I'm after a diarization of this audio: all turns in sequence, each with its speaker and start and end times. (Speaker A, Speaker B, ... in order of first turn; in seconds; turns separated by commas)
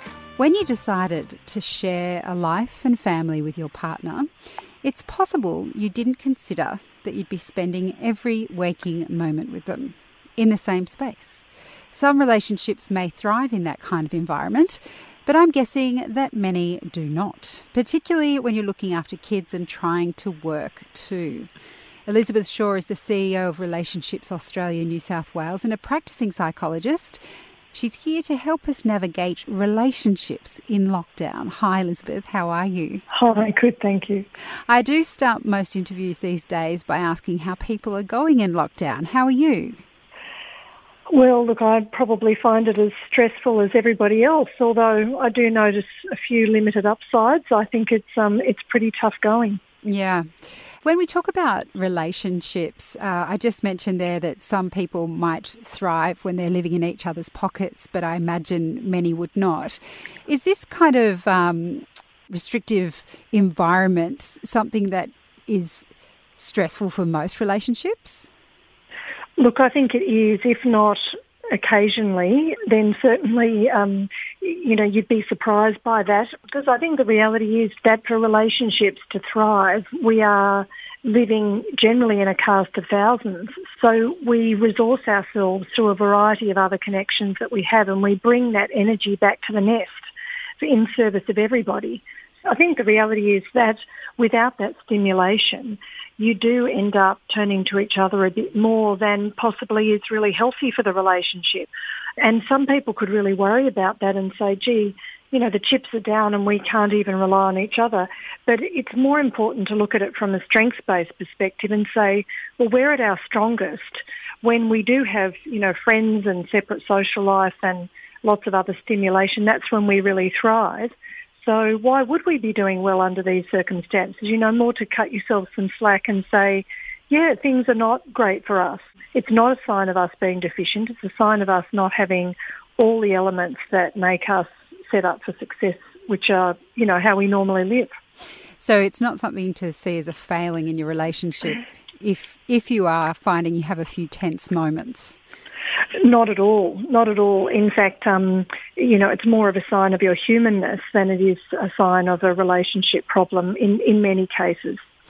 Speaker A: 0.4-4.3, Speaker A: 4.8-21.5, Speaker A: 22.1-27.2, Speaker A: 27.7-33.0, Speaker B: 33.1-34.3, Speaker A: 34.7-39.8, Speaker B: 41.1-49.6, Speaker A: 49.8-50.2, Speaker A: 50.8-68.3, Speaker B: 69.4-90.0, Speaker B: 90.6-137.9, Speaker A: 138.6-145.2, Speaker B: 146.0-154.8